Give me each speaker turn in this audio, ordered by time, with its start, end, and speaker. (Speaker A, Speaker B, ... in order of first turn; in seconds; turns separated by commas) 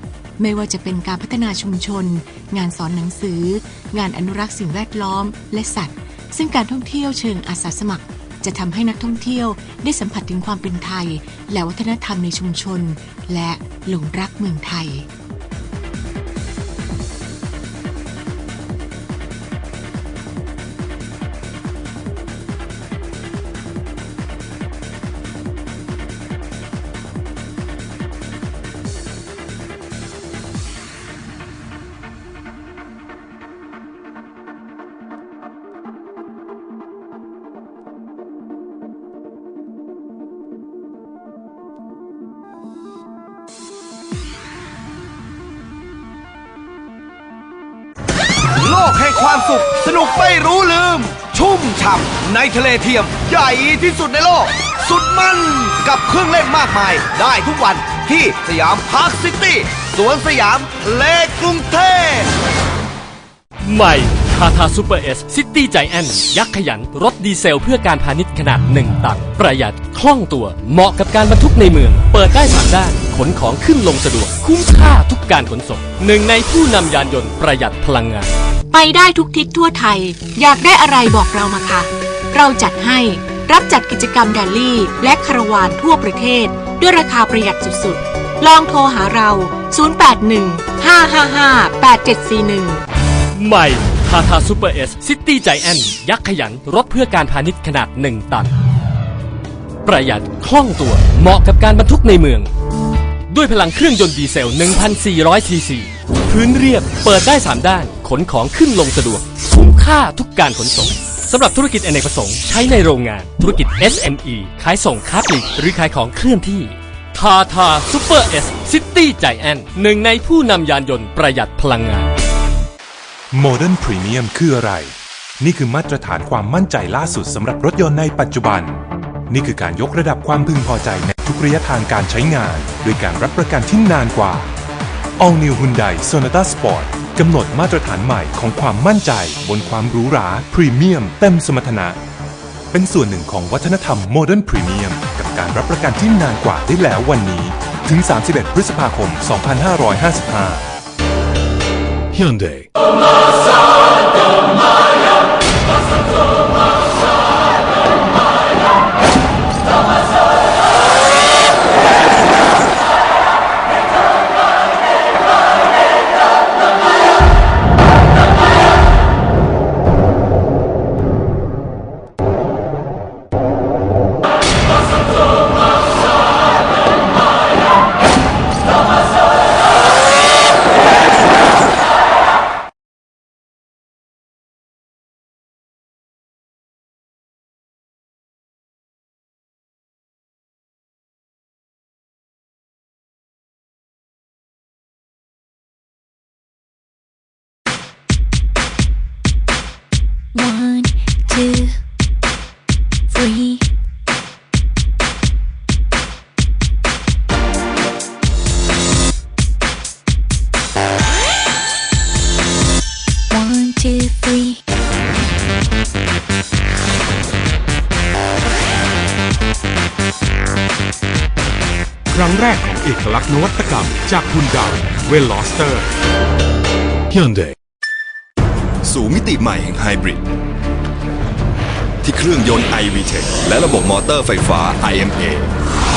Speaker A: 0.4-15.1, Speaker B: 48.6-62.3, Speaker C: 63.6-78.3, Speaker A: 78.7-92.8, Speaker C: 93.3-98.5, Speaker C: 99.8-102.5, Speaker C: 103.3-122.1, Speaker D: 123.3-134.5, Speaker D: 135.2-142.0, Speaker D: 142.7-150.7, Speaker D: 152.2-152.6, Speaker E: 200.3-201.8, Speaker E: 203.1-203.7, Speaker E: 213.3-214.6, Speaker D: 222.3-224.8, Speaker F: 228.8-230.2, Speaker F: 232.0-235.5